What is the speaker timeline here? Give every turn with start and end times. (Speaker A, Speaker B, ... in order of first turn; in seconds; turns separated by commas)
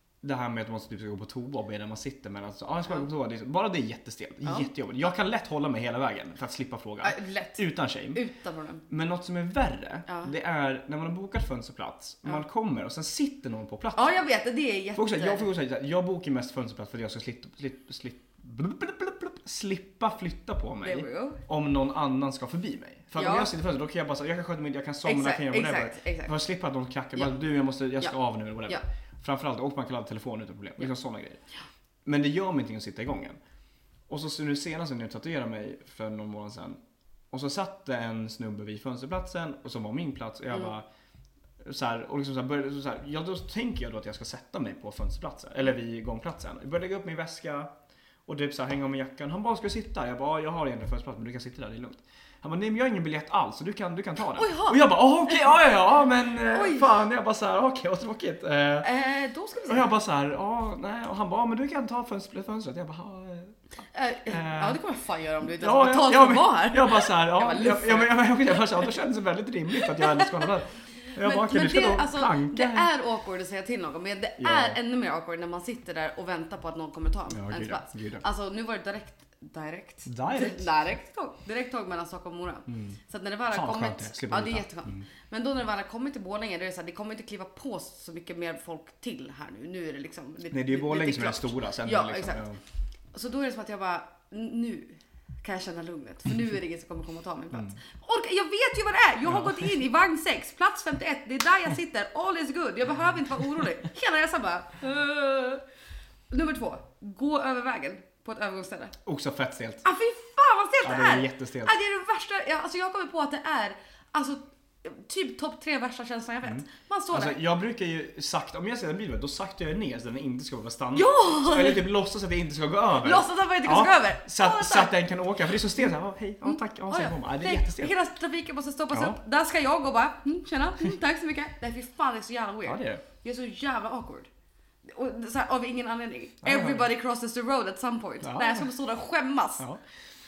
Speaker A: 0.2-8.2, Speaker B: 7.0-8.8, Speaker A: 8.9-14.2, Speaker B: 14.0-15.5, Speaker A: 14.9-31.4, Speaker B: 20.8-21.4, Speaker B: 23.2-23.5, Speaker B: 25.1-26.4, Speaker A: 32.0-33.4, Speaker A: 34.1-36.8, Speaker A: 37.3-40.9, Speaker A: 41.6-47.7, Speaker A: 48.3-58.9, Speaker B: 54.4-55.6, Speaker B: 56.5-56.9, Speaker B: 58.8-60.0, Speaker A: 59.7-63.6, Speaker B: 63.9-68.6, Speaker A: 64.3-64.8, Speaker A: 65.6-72.9, Speaker B: 69.8-70.4, Speaker B: 71.2-92.4, Speaker A: 74.4-74.8, Speaker A: 77.3-78.2, Speaker A: 80.1-80.7, Speaker A: 82.7-83.0, Speaker A: 83.5-85.0, Speaker A: 90.5-92.6, Speaker B: 93.1-105.6, Speaker A: 99.3-99.7, Speaker B: 106.3-109.0, Speaker A: 109.0-109.8, Speaker B: 109.8-117.4, Speaker A: 110.8-111.7, Speaker A: 116.4-127.9, Speaker B: 120.9-121.9, Speaker B: 123.0-124.9, Speaker B: 126.5-134.3, Speaker A: 128.9-129.2, Speaker A: 132.6-133.0, Speaker B: 134.8-139.7, Speaker A: 136.4-136.9, Speaker A: 138.2-138.7